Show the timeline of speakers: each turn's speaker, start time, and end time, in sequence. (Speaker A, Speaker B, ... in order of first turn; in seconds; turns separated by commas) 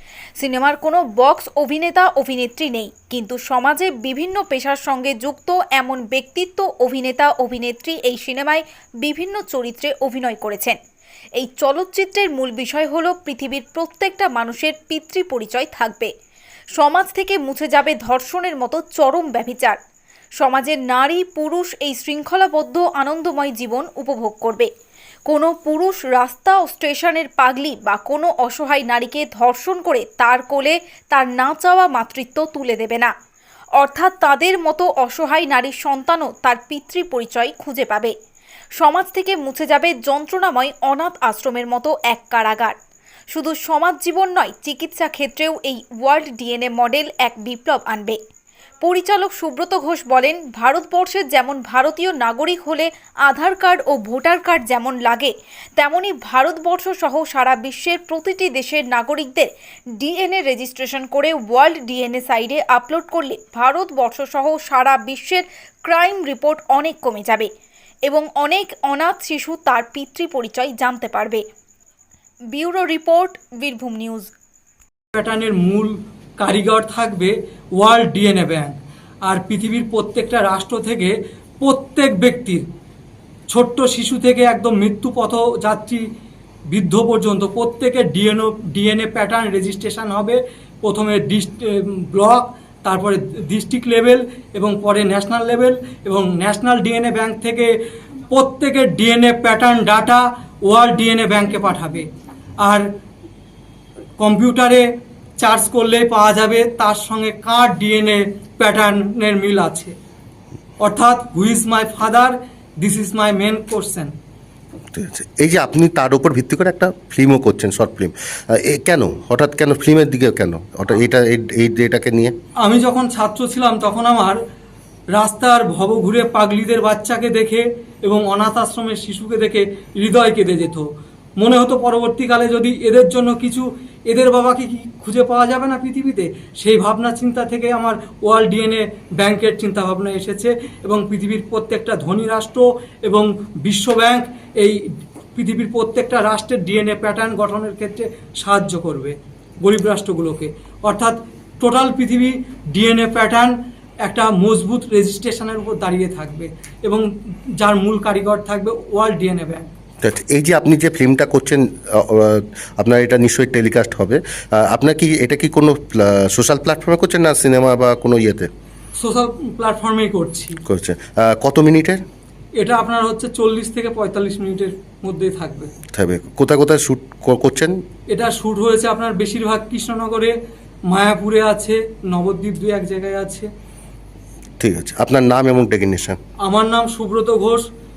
Speaker A: 0.4-10.8, Speaker A: 11.4-16.1, Speaker A: 16.8-19.8, Speaker A: 20.4-24.7, Speaker A: 25.3-33.1, Speaker A: 33.8-38.1, Speaker A: 38.8-42.8, Speaker A: 43.3-48.2, Speaker A: 48.8-67.5, Speaker A: 68.1-71.4, Speaker A: 72.5-74.3, Speaker B: 75.2-78.7, Speaker B: 79.3-82.6, Speaker B: 83.5-86.0, Speaker B: 86.7-97.7, Speaker B: 98.3-102.0, Speaker B: 104.2-104.8, Speaker B: 105.4-109.9, Speaker B: 110.8-114.1, Speaker C: 114.9-122.3, Speaker B: 122.6-124.4, Speaker B: 125.1-130.8, Speaker B: 131.4-144.8, Speaker B: 145.4-153.5, Speaker B: 154.1-157.0, Speaker B: 157.6-159.7, Speaker C: 160.0-168.5, Speaker B: 169.0-170.5, Speaker C: 170.7-172.0, Speaker B: 172.6-175.7, Speaker C: 175.9-177.8, Speaker B: 178.1-180.3, Speaker B: 180.9-183.5, Speaker C: 184.6-186.2, Speaker B: 186.4-187.6